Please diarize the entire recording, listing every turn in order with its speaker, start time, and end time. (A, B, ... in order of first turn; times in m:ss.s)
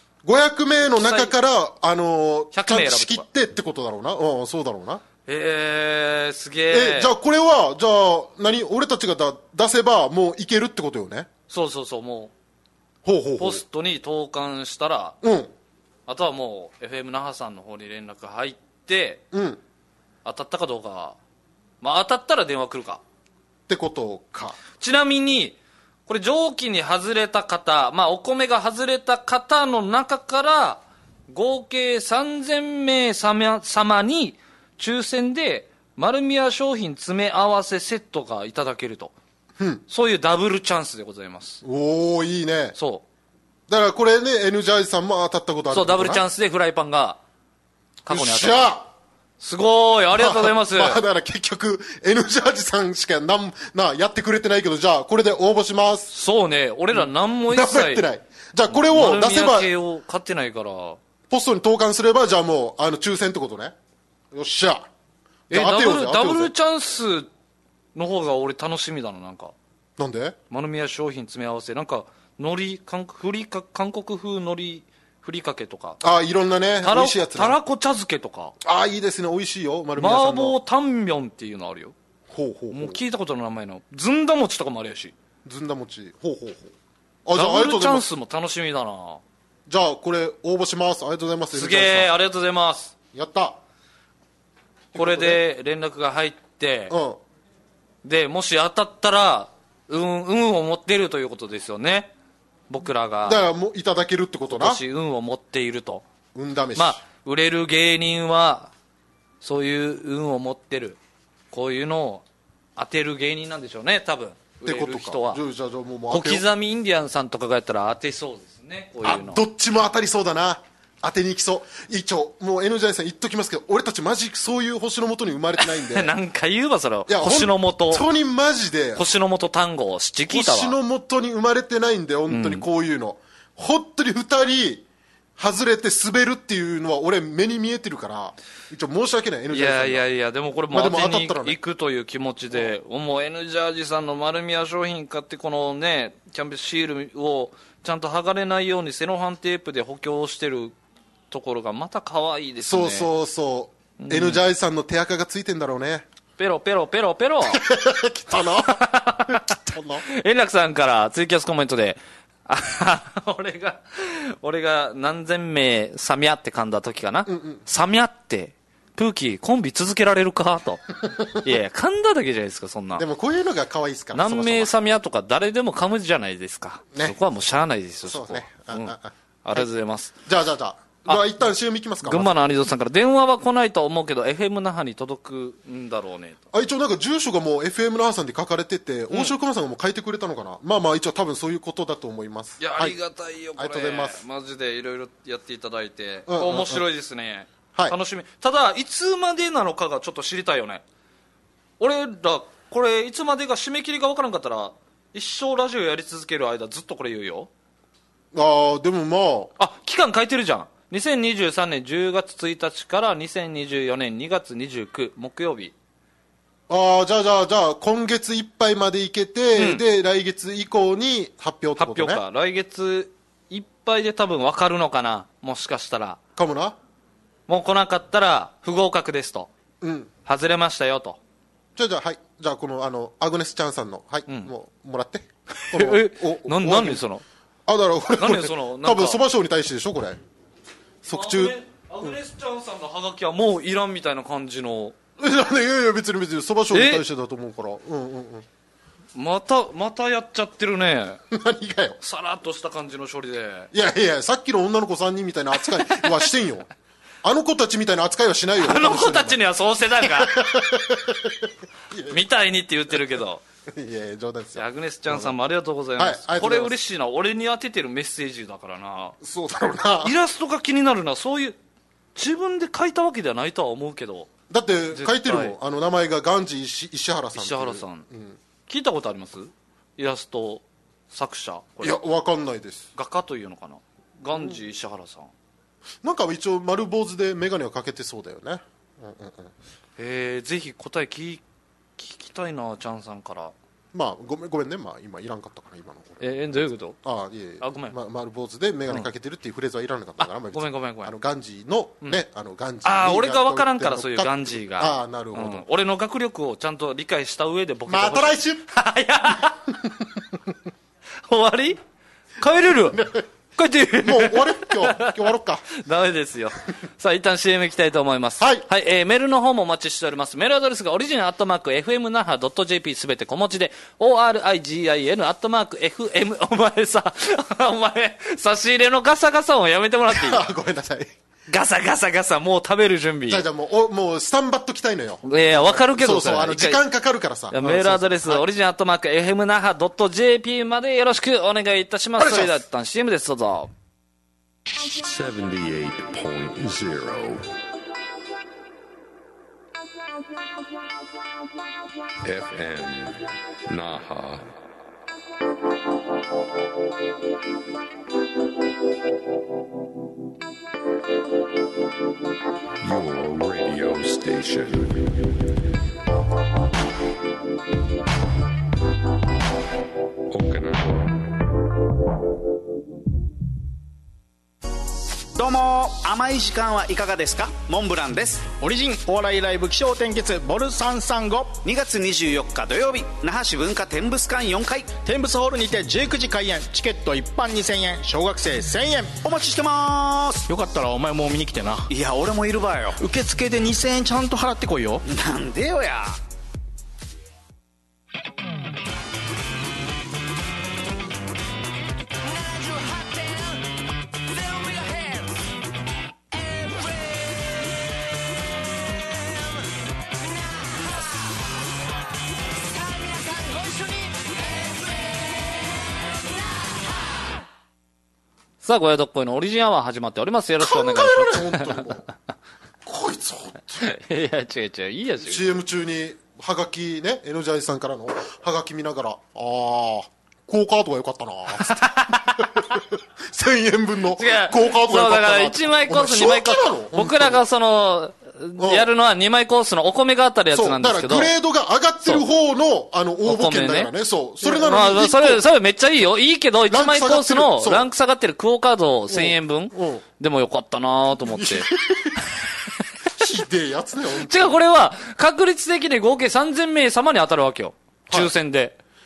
0:00.2-0:05.0 A
0:00.8-0:01.4 B
0:02.5-0:03.2 B
0:05.3-0:07.1 B
0:06.7-0:11.3 A
0:11.5-0:12.3 B
0:13.0-0:13.6 A
0:13.4-0:15.2 B
0:15.2-0:15.5 A
0:16.1-0:19.2 B
0:19.3-0:19.6 A
0:20.2-0:21.2 B
0:21.8-0:23.0 B
0:23.7-0:24.6 A
0:24.8-0:39.1 B
0:39.9-0:41.6 B
0:41.6-0:42.8 A
0:42.8-0:43.0 B
0:43.7-0:46.2 A
0:45.7-0:47.2 B
0:48.0-0:48.7 B
0:48.1-0:48.9 A
0:49.4-0:51.0 B
0:50.2-0:56.1 A
0:56.1-0:58.0 B
0:57.0-0:59.7 A
0:58.7-1:01.0 B
1:01.3-1:03.8 A
1:04.3-1:04.9 A
1:05.5-1:06.5 A
1:05.5-1:07.3 B
1:08.0-1:09.5 B
1:10.0-1:10.4 A
1:10.5-1:16.0 B
1:16.0-1:17.6 A
1:16.8-1:18.5 B
1:18.6-1:20.6 A
1:20.0-1:21.9 B
1:22.3-1:23.0 A
1:22.7-1:25.1 B
1:25.4-1:26.7 A
1:27.2-1:28.1 A
1:27.3-1:29.2 B
1:29.7-1:32.1 A
1:31.5-1:32.9 B
1:33.1-1:33.6 A
1:34.9-1:35.4 A
1:35.0-1:37.0 B
1:36.9-1:37.2 A
1:38.0-1:42.1 B
1:42.7-1:43.4 B
1:43.2-1:44.8 A
1:44.5-1:46.0 B
1:46.4-1:47.0 A
1:46.8-1:48.7 B
1:49.4-1:51.0 B
1:51.5-1:52.2 B
1:52.8-1:55.4 B
1:54.6-1:56.4 A
1:56.1-1:59.4 B
1:59.0-2:06.1 A
2:05.6-2:08.0 B
2:07.1-2:09.0 A
2:09.0-2:10.8 B
2:10.3-2:14.8 A
2:12.3-2:12.7 B
2:15.4-2:20.0 A
2:19.5-2:30.8 B
2:20.7-2:21.6 A
2:31.3-2:33.1 B
2:32.6-2:36.1 A
2:34.0-2:34.4 B
2:36.4-2:37.6 B
2:37.5-2:40.0 A
2:38.4-2:53.0 B
2:47.3-2:47.6 A
2:53.0-2:54.7 A
2:54.1-3:00.1 B
2:58.0-2:59.7 A
3:00.3-3:02.4 A
3:02.0-3:06.4 B
3:06.5-3:13.0 A
3:12.6-3:20.8 B
3:13.6-3:14.2 A
3:16.3-3:16.8 A
3:21.8-3:27.5 B
3:28.3-3:29.5 A
3:29.6-3:35.7 B
3:36.7-3:42.2 A
3:39.6-3:39.8 B
3:41.8-3:46.2 B
3:46.4-3:46.8 A
3:47.5-3:49.5 B
3:49.8-3:50.1 A
3:50.3-3:51.2 B
3:51.8-3:57.0 A
3:55.6-3:57.2 B
3:57.7-4:00.2 A
3:58.2-3:59.2 B
4:01.0-4:02.1 A
4:01.1-4:05.0 B
4:05.2-4:08.5 A
4:06.7-4:07.0 B
4:09.2-4:11.2 B
4:11.3-4:12.0 A
4:12.0-4:13.7 B
4:13.7-4:16.7 A
4:15.8-4:16.3 B
4:17.2-4:19.4 A
4:18.6-4:20.4 B
4:20.0-4:22.2 A
4:22.1-4:23.4 B
4:23.7-4:25.4 A
4:24.6-4:29.2 B
4:26.0-4:26.8 A
4:29.2-4:30.2 A
4:30.0-4:31.6 B
4:32.2-4:34.3 B
4:34.5-4:38.4 A
4:34.9-4:35.6 B
4:37.4-4:38.1 B
4:38.7-4:42.0 B
4:41.8-4:42.9 A
4:43.0-4:45.3 B
4:46.0-4:49.5 A
4:50.0-4:51.4 B
4:52.0-4:53.5 B
4:53.9-4:56.2 A
4:56.2-4:57.0 B
4:57.0-5:05.6 A
4:57.6-4:58.0 B
5:00.2-5:01.1 B
5:02.8-5:09.7 B
5:07.9-5:08.7 A
5:11.3-5:11.8 B
5:12.4-5:13.0 B
5:12.9-5:13.3 A
5:13.6-5:30.4 B
5:14.0-5:15.6 A
5:18.4-5:18.7 A
5:30.1-5:31.1 A
5:31.5-5:33.5 B
5:33.3-5:38.4 A
5:35.2-5:36.8 B
5:37.5-5:43.7 B
5:42.2-5:42.6 A
5:44.8-5:47.4 C
5:52.2-5:54.4 C
6:02.8-6:05.3 C
6:10.3-6:11.3 C
6:15.4-6:18.5 D
6:18.6-6:21.6 E
6:21.6-6:25.0 D
6:25.0-6:29.2 E
6:29.2-6:30.5 D
6:30.5-6:31.9 E
6:31.9-6:33.0 D
6:33.0-6:35.0 E
6:35.1-6:36.2 D
6:58.6-7:02.0 B
7:00.6-7:02.1 A
7:02.8-7:04.0 A
7:03.8-7:05.6 B
7:05.2-7:17.4 A
7:11.6-7:12.5 B
7:14.2-7:21.3 B
7:18.6-7:18.9 A
7:20.5-7:25.4 A
7:23.2-7:31.7 B
7:26.7-7:27.9 A
7:29.1-7:30.0 A
7:31.3-7:32.2 A
7:33.2-7:34.6 A
7:34.1-7:38.8 B